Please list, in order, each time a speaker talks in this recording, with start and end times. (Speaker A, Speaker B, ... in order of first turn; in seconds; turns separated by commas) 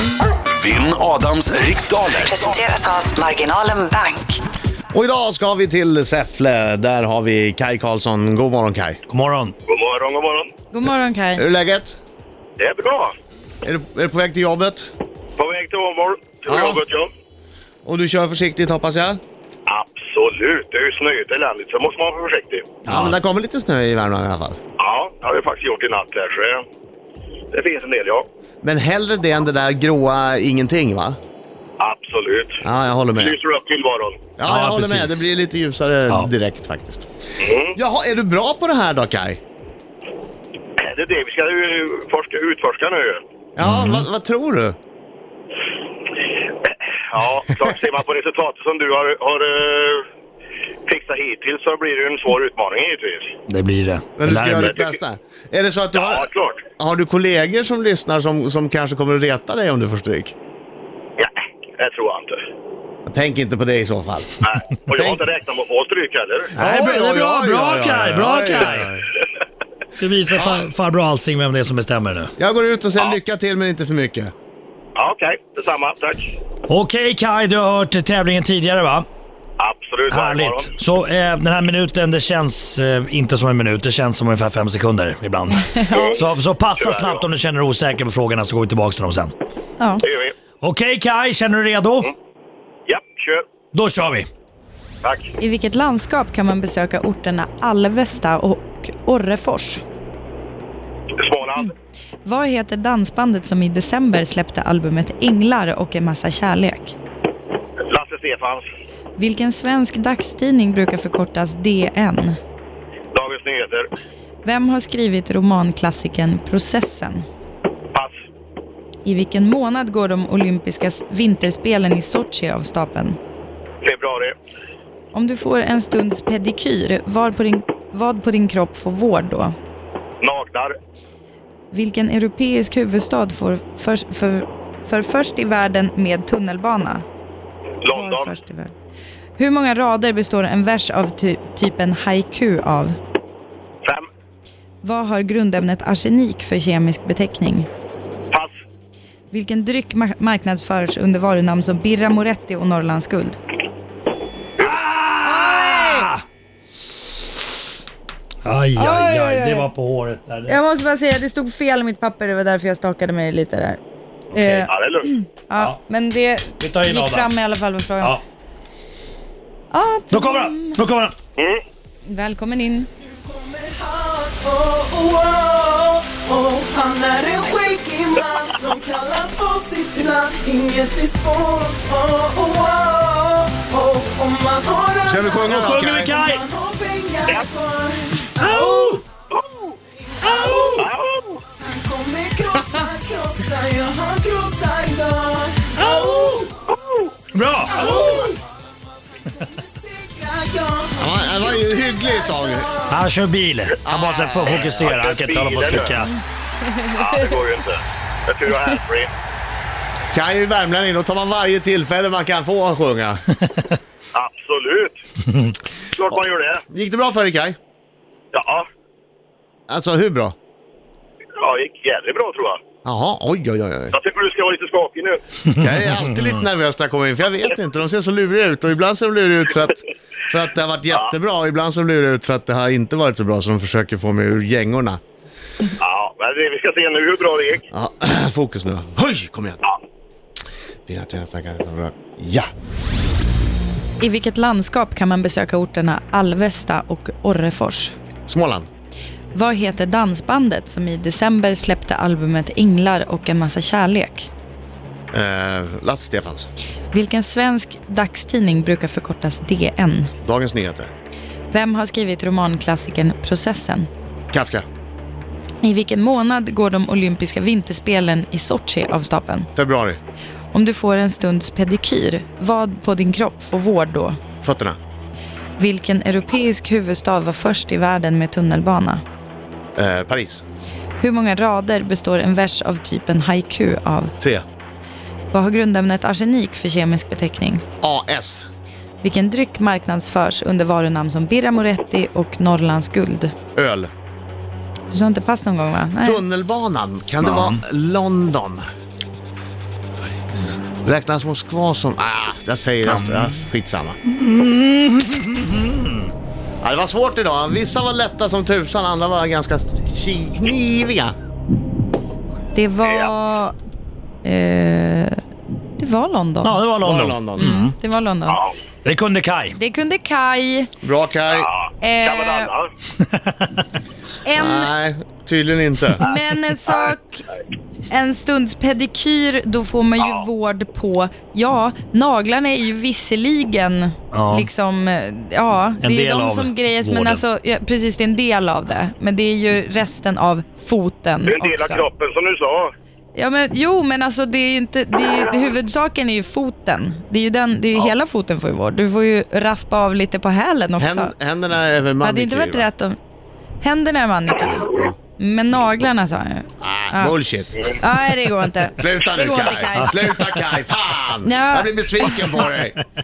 Speaker A: 0.6-2.6, Speaker B: 2.2-4.4, Speaker C: 4.9-9.0, Speaker D: 9.1-9.5, Speaker E: 9.7-10.5, Speaker F: 10.7-11.4, Speaker C: 11.4-12.0, Speaker E: 12.6-13.1, Speaker C: 13.6-14.9, Speaker E: 15.4-17.1, Speaker C: 16.5-16.8, Speaker C: 17.8-19.2, Speaker E: 19.7-22.8, Speaker D: 22.8-23.1, Speaker C: 22.9-24.6, Speaker E: 24.8-26.6, Speaker E: 27.5-28.2, Speaker C: 28.6-31.2, Speaker E: 31.8-32.6, Speaker C: 32.6-33.4, Speaker E: 33.1-34.3, Speaker C: 34.4-37.1, Speaker D: 34.4-35.2, Speaker E: 37.4-37.8, Speaker C: 37.7-39.4, Speaker E: 40.8-43.2, Speaker C: 43.6-44.8, Speaker D: 43.6-44.0, Speaker E: 46.6-50.0, Speaker E: 50.9-53.3, Speaker D: 53.5-54.7, Speaker C: 54.2-60.3, Speaker E: 54.6-54.9, Speaker E: 55.9-56.6, Speaker E: 61.2-62.4, Speaker C: 63.0-64.3, Speaker E: 64.4-66.5, Speaker C: 64.9-65.2, Speaker D: 66.5-68.9, Speaker C: 66.6-69.0, Speaker D: 69.9-72.3, Speaker C: 72.4-74.3, Speaker E: 75.0-76.3, Speaker D: 76.7-79.1, Speaker E: 79.6-80.7, Speaker D: 80.1-89.3, Speaker F: 85.5-86.1, Speaker E: 85.9-87.2, Speaker F: 89.8-90.0, Speaker E: 90.0-90.3, Speaker D: 90.6-92.1, Speaker E: 92.9-93.4, Speaker D: 93.7-94.3, Speaker E: 95.0-95.3, Speaker F: 95.4-99.8, Speaker E: 101.2-101.7, Speaker F: 102.2-107.0, Speaker E: 107.8-108.6, Speaker F: 109.2-112.4, Speaker E: 113.1-113.9, Speaker F: 114.4-117.2, Speaker F: 119.0-123.2, Speaker E: 123.8-124.3, Speaker F: 125.1-129.5, Speaker E: 130.2-130.7, Speaker F: 131.7-137.1, Speaker E: 137.8-138.3, Speaker F: 137.9-138.7, Speaker F: 139.4-143.0, Speaker F: 144.8-147.7, Speaker F: 149.3-153.4, Speaker D: 154.6-156.2, Speaker F: 155.2-156.1, Speaker D: 158.4-160.6, Speaker F: 158.8-159.7, Speaker F: 160.5-163.8, Speaker D: 164.3-164.7, Speaker F: 164.3-168.2, Speaker E: 164.7-165.1, Speaker D: 166.6-167.3, Speaker F: 169.7-170.8, Speaker D: 170.1-171.1, Speaker E: 171.4-171.6, Speaker F: 172.0-172.9, Speaker G: 173.3-185.5, Speaker C: 185.0-186.2, Speaker D: 185.4-186.5, Speaker G: 186.2-188.2, Speaker D: 188.4-189.0, Speaker C: 188.5-189.0, Speaker E: 189.3-189.7, Speaker D: 190.2-190.8, Speaker E: 190.7-191.4, Speaker G: 191.6-195.6, Speaker D: 195.8-196.3, Speaker C: 195.9-196.5, Speaker E: 196.7-197.1, Speaker D: 197.3-198.3, Speaker G: 199.8-201.6, Speaker C: 200.9-202.7, Speaker D: 202.9-206.1, Speaker C: 203.8-204.7, Speaker E: 204.4-206.0, Speaker F: 206.6-207.2, Speaker E: 206.9-209.1, Speaker C: 210.1-213.2, Speaker E: 214.1-215.0, Speaker E: 215.9-216.6, Speaker C: 216.7-217.6, Speaker E: 218.3-218.7, Speaker C: 219.7-220.3, Speaker E: 221.4-222.6, Speaker C: 222.8-223.9, Speaker E: 223.9-225.2, Speaker C: 225.5-235.0, Speaker E: 235.8-237.6, Speaker C: 237.7-239.6, Speaker C: 240.9-242.5, Speaker F: 244.0-247.9, Speaker C: 248.3-248.7, Speaker F: 249.3-254.3, Speaker C: 255.1-256.5, Speaker F: 256.9-260.1, Speaker C: 260.2-260.9, Speaker F: 261.5-263.9, Speaker C: 264.3-264.6, Speaker F: 265.6-269.5, Speaker C: 269.6-270.0, Speaker F: 270.5-274.2, Speaker C: 274.4-274.8, Speaker F: 275.6-279.0, Speaker C: 279.8-280.4, Speaker F: 281.0-284.1, Speaker F: 285.3-287.6, Speaker C: 287.8-288.5, Speaker F: 289.0-293.3, Speaker C: 293.5-293.9, Speaker F: 294.9-296.2, Speaker C: 296.0-298.6, Speaker D: 297.2-297.6, Speaker C: 300.3-304.0, Speaker D: 302.9-303.4, Speaker D: 304.1-306.1, Speaker C: 306.6-311.1, Speaker F: 312.5-313.6, Speaker E: 312.8-313.1, Speaker F: 314.2-315.2, Speaker F: 315.8-316.6, Speaker D: 316.4-317.7, Speaker C: 316.8-317.6, Speaker F: 317.3-318.4, Speaker D: 318.8-319.6, Speaker F: 319.5-320.7, Speaker C: 320.8-321.5, Speaker E: 321.3-322.7, Speaker F: 321.8-322.5, Speaker F: 324.2-324.7, Speaker C: 324.3-326.0, Speaker F: 326.0-327.2, Speaker F: 327.9-341.8, Speaker E: 330.0-330.2, Speaker D: 334.1-334.5, Speaker D: 335.8-337.2, Speaker E: 341.2-342.7, Speaker F: 343.1-351.1, Speaker C: 350.8-352.7, Speaker F: 352.0-352.9, Speaker F: 353.6-357.2, Speaker C: 356.6-357.6, Speaker F: 357.8-360.2, Speaker C: 358.8-362.8, Speaker F: 361.2-362.5